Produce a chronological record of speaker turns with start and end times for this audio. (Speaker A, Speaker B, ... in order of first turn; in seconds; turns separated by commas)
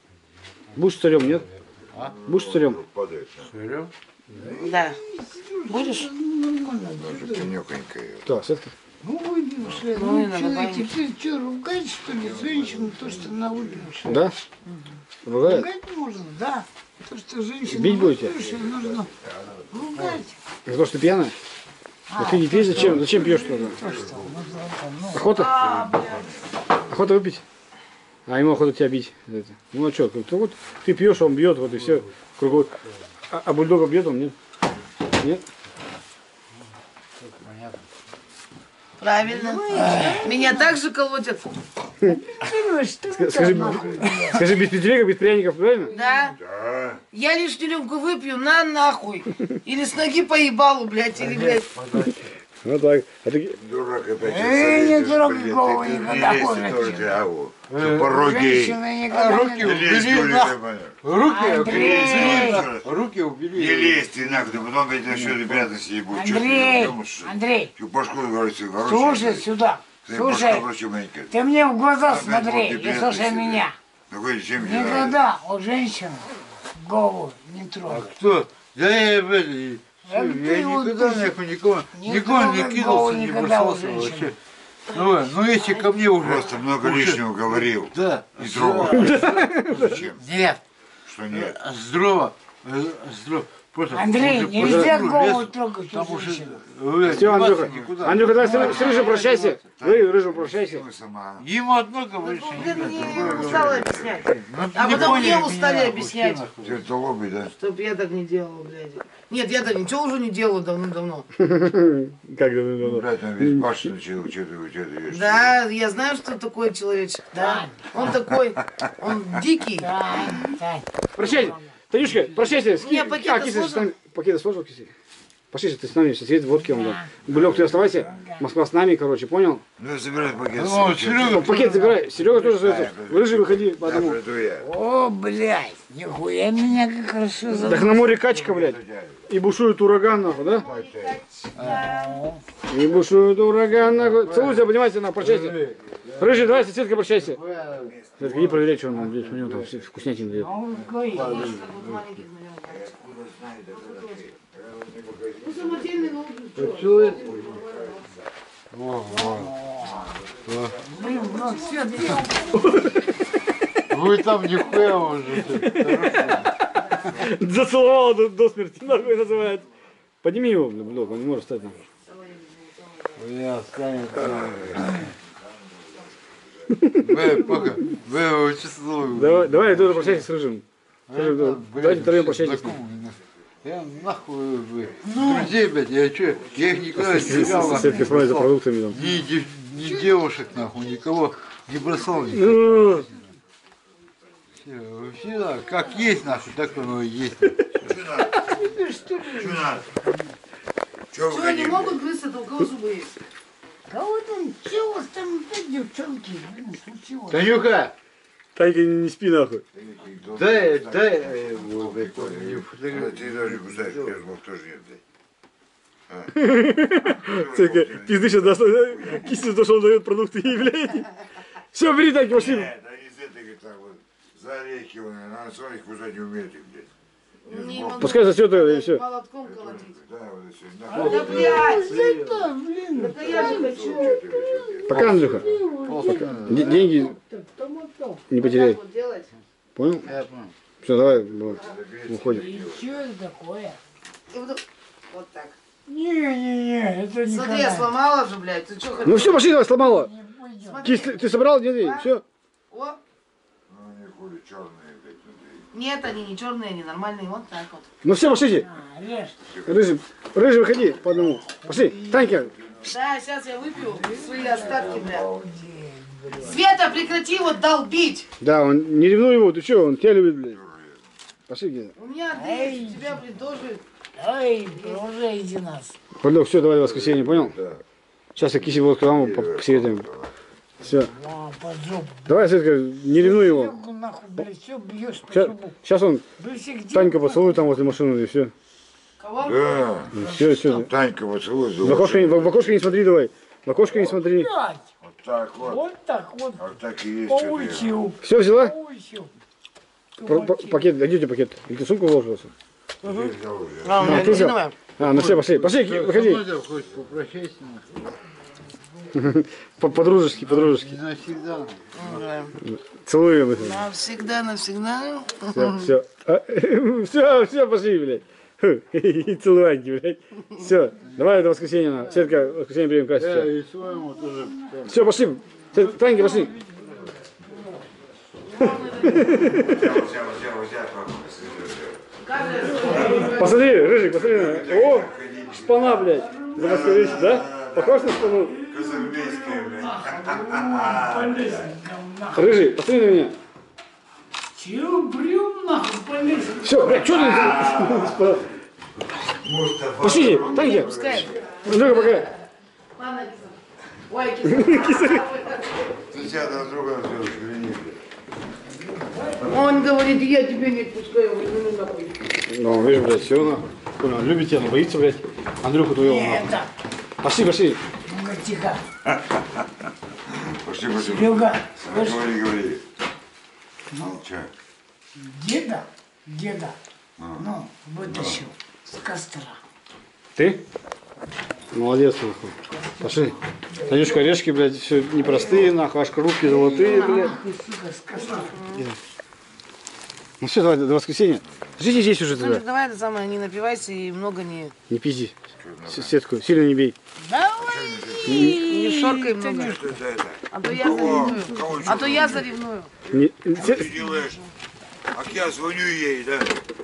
Speaker A: 0.8-1.4, Speaker B: 1.3-2.2, Speaker C: 2.0-3.5, Speaker A: 2.3-2.8, Speaker B: 3.5-4.6, Speaker D: 4.5-7.5, Speaker E: 4.6-5.0, Speaker E: 5.7-6.1, Speaker C: 6.9-8.3, Speaker A: 8.2-8.7, Speaker D: 9.0-14.3, Speaker E: 9.9-10.9, Speaker C: 12.0-13.9, Speaker A: 14.0-14.3, Speaker A: 15.2-15.7, Speaker D: 15.4-19.1, Speaker A: 17.6-18.3, Speaker C: 18.3-20.1, Speaker D: 19.7-20.3, Speaker A: 20.7-21.3, Speaker D: 22.1-25.3, Speaker A: 22.2-23.8, Speaker C: 22.7-24.6, Speaker A: 25.1-25.6, Speaker E: 25.3-26.3, Speaker C: 25.4-26.6, Speaker A: 26.9-27.4, Speaker A: 28.3-32.7, Speaker A: 33.3-34.3, Speaker B: 37.2-37.9, Speaker E: 39.0-41.5, Speaker D: 39.3-40.7, Speaker B: 39.7-40.1, Speaker D: 42.0-44.6, Speaker A: 43.1-45.9, Speaker D: 45.8-46.3, Speaker E: 45.9-46.4, Speaker C: 46.3-47.0, Speaker E: 47.1-51.7, Speaker B: 51.3-52.1, Speaker A: 52.6-53.6, Speaker C: 53.6-58.8, Speaker D: 54.2-57.2, Speaker B: 57.7-58.2, Speaker D: 58.1-59.8, Speaker B: 59.1-65.7, Speaker C: 59.5-61.0, Speaker D: 61.2-62.6, Speaker C: 61.5-63.0, Speaker C: 63.5-69.5, Speaker D: 66.1-67.7, Speaker D: 68.8-70.6, Speaker C: 70.0-71.3, Speaker D: 71.3-73.8, Speaker C: 72.1-75.2, Speaker D: 74.6-78.1, Speaker B: 77.8-84.3, Speaker D: 80.1-81.3, Speaker D: 81.9-84.3, Speaker B: 84.9-90.6, Speaker C: 86.2-90.2, Speaker A: 88.9-90.0, Speaker C: 91.0-91.6, Speaker B: 91.3-99.6, Speaker D: 93.9-96.6, Speaker A: 94.5-94.9, Speaker A: 97.0-100.8, Speaker D: 98.3-99.0, Speaker C: 99.8-101.5, Speaker B: 101.4-103.8, Speaker E: 102.2-106.4, Speaker C: 102.6-104.3, Speaker B: 104.3-106.9, Speaker C: 104.9-105.3, Speaker C: 106.6-107.5, Speaker E: 107.5-111.3, Speaker A: 111.4-113.8, Speaker C: 112.8-115.5, Speaker E: 115.1-120.2, Speaker D: 117.3-117.9, Speaker D: 119.8-121.6, Speaker A: 121.1-124.9, Speaker E: 122.7-123.9, Speaker A: 125.5-129.6, Speaker D: 126.5-127.1, Speaker C: 127.3-128.1, Speaker D: 128.0-128.4, Speaker C: 129.8-134.7, Speaker B: 130.5-131.8, Speaker A: 131.1-134.2, Speaker D: 131.5-132.0, Speaker D: 134.6-137.9, Speaker A: 137.5-140.6, Speaker C: 137.6-139.3, Speaker E: 140.2-142.2, Speaker C: 140.5-141.2, Speaker B: 141.6-141.9, Speaker D: 141.6-142.4, Speaker A: 142.7-145.6, Speaker B: 143.9-144.6, Speaker B: 145.2-149.7, Speaker A: 146.2-147.4, Speaker C: 147.8-148.5, Speaker A: 148.2-150.5, Speaker D: 150.3-151.5, Speaker B: 150.7-152.0, Speaker E: 151.1-153.0, Speaker C: 152.7-156.1, Speaker E: 153.8-154.2, Speaker E: 155.4-158.1, Speaker B: 156.5-157.3, Speaker C: 157.0-158.2, Speaker B: 158.7-159.5, Speaker D: 159.1-160.2, Speaker B: 160.4-160.8, Speaker D: 160.8-162.8, Speaker E: 161.0-162.9, Speaker A: 162.5-163.0, Speaker B: 163.9-166.5, Speaker A: 165.5-166.4, Speaker A: 167.1-169.7, Speaker A: 170.2-171.8, Speaker E: 172.1-173.2, Speaker B: 173.2-175.1, Speaker C: 174.1-176.8, Speaker A: 176.7-177.8, Speaker B: 177.0-180.3, Speaker A: 179.1-182.8, Speaker B: 181.1-192.6, Speaker E: 185.1-185.5, Speaker A: 187.0-189.0, Speaker D: 187.7-188.0, Speaker D: 189.8-190.3, Speaker A: 192.3-193.1, Speaker B: 194.6-198.0, Speaker D: 195.4-195.9, Speaker C: 197.8-198.5, Speaker D: 198.2-200.1, Speaker C: 199.2-199.9, Speaker C: 201.1-202.0, Speaker E: 201.3-203.1, Speaker D: 203.9-207.6, Speaker B: 207.3-207.9, Speaker A: 208.5-209.6, Speaker C: 209.7-215.0, Speaker B: 210.3-214.2, Speaker C: 216.1-216.4, Speaker A: 216.3-221.2, Speaker C: 217.1-219.3, Speaker A: 221.7-222.7, Speaker C: 222.3-226.9, Speaker E: 227.4-229.9, Speaker C: 227.5-228.2, Speaker A: 228.0-229.0, Speaker C: 229.4-231.7, Speaker D: 230.9-238.3, Speaker B: 230.9-232.5, Speaker E: 231.0-231.9, Speaker E: 232.9-234.2, Speaker C: 233.2-235.1, Speaker A: 234.9-235.4, Speaker B: 234.9-236.9, Speaker A: 236.1-237.1, Speaker A: 238.3-238.8, Speaker E: 238.4-239.3, Speaker A: 239.8-240.1, Speaker B: 240.0-240.5, Speaker A: 240.8-242.5, Speaker C: 241.4-242.9, Speaker D: 242.3-243.8, Speaker E: 244.3-245.6, Speaker D: 245.9-247.9, Speaker E: 247.2-249.5, Speaker A: 249.0-250.1, Speaker D: 249.2-250.9, Speaker E: 250.6-252.1, Speaker A: 250.8-252.2, Speaker E: 252.7-253.0, Speaker C: 253.7-255.7, Speaker E: 255.7-257.9, Speaker A: 258.0-258.7, Speaker D: 258.5-259.4, Speaker C: 259.5-259.8, Speaker A: 259.6-262.5, Speaker D: 261.5-262.4, Speaker E: 262.8-265.3, Speaker D: 263.8-266.6, Speaker C: 264.7-265.4, Speaker E: 266.4-268.3, Speaker A: 268.4-270.6, Speaker C: 270.5-271.1, Speaker A: 271.5-271.9, Speaker E: 271.9-273.8, Speaker D: 272.4-273.2, Speaker D: 274.1-276.0, Speaker E: 274.7-275.0, Speaker A: 276.2-277.5, Speaker C: 276.7-277.8, Speaker A: 278.4-280.0, Speaker C: 278.5-280.3, Speaker A: 280.8-281.1, Speaker D: 280.9-282.4, Speaker A: 282.3-283.7, Speaker D: 283.1-285.8, Speaker A: 285.3-286.2, Speaker D: 286.4-287.7, Speaker A: 286.9-288.5, Speaker E: 289.2-289.8, Speaker C: 289.4-292.9, Speaker A: 290.1-290.9, Speaker D: 290.2-290.6, Speaker A: 291.8-294.5, Speaker D: 293.9-294.8, Speaker C: 295.0-295.8, Speaker D: 295.6-296.6, Speaker C: 296.6-297.9, Speaker D: 297.2-299.3, Speaker A: 298.2-298.7, Speaker D: 300.2-300.9, Speaker A: 300.2-302.5, Speaker C: 303.0-304.4, Speaker E: 303.8-304.8, Speaker A: 304.0-306.4, Speaker B: 305.0-307.9, Speaker A: 309.1-311.0, Speaker B: 310.4-312.0, Speaker E: 311.9-312.6, Speaker A: 312.6-313.8, Speaker E: 313.5-315.9, Speaker A: 315.5-323.5, Speaker B: 323.1-325.0, Speaker D: 324.0-324.9, Speaker A: 324.9-326.5, Speaker D: 326.0-326.8, Speaker E: 328.4-329.9, Speaker A: 329.0-329.9, Speaker C: 329.5-332.0, Speaker E: 332.2-333.6, Speaker D: 332.4-333.5, Speaker C: 332.6-341.7, Speaker A: 333.0-338.5, Speaker D: 336.2-337.1, Speaker D: 338.5-342.6, Speaker A: 342.3-343.3, Speaker D: 344.5-347.6, Speaker A: 346.6-348.4, Speaker C: 347.2-348.4, Speaker C: 349.4-351.5, Speaker A: 350.0-350.9, Speaker E: 350.4-352.3, Speaker A: 351.6-352.3, Speaker E: 352.9-356.1, Speaker A: 354.4-355.2, Speaker C: 356.1-358.0, Speaker D: 358.9-359.6, Speaker C: 359.3-359.6, Speaker E: 359.4-362.3, Speaker A: 362.5-366.5, Speaker D: 366.0-366.7, Speaker A: 367.2-367.8, Speaker D: 368.0-368.8, Speaker C: 369.1-369.6, Speaker C: 370.3-372.9, Speaker D: 370.9-372.2, Speaker D: 373.9-374.2, Speaker C: 374.2-374.5, Speaker D: 375.1-376.8, Speaker C: 377.2-377.5, Speaker D: 377.4-379.6, Speaker C: 378.0-378.4, Speaker E: 378.1-378.5, Speaker A: 380.4-380.6, Speaker A: 381.7-383.3, Speaker D: 382.7-384.4, Speaker A: 383.9-387.4, Speaker D: 385.2-385.7, Speaker D: 386.4-388.6, Speaker E: 388.2-388.9, Speaker A: 388.7-389.0, Speaker A: 390.4-392.6, Speaker E: 392.3-394.7, Speaker A: 394.9-395.3, Speaker C: 395.5-396.2, Speaker A: 395.9-396.9, Speaker D: 397.2-399.9, Speaker C: 397.5-398.6, Speaker A: 398.3-398.6, Speaker E: 398.6-399.8, Speaker C: 399.6-404.4, Speaker E: 400.5-402.9, Speaker D: 400.7-402.4, Speaker A: 403.1-403.9, Speaker D: 403.8-404.3, Speaker C: 405.1-406.6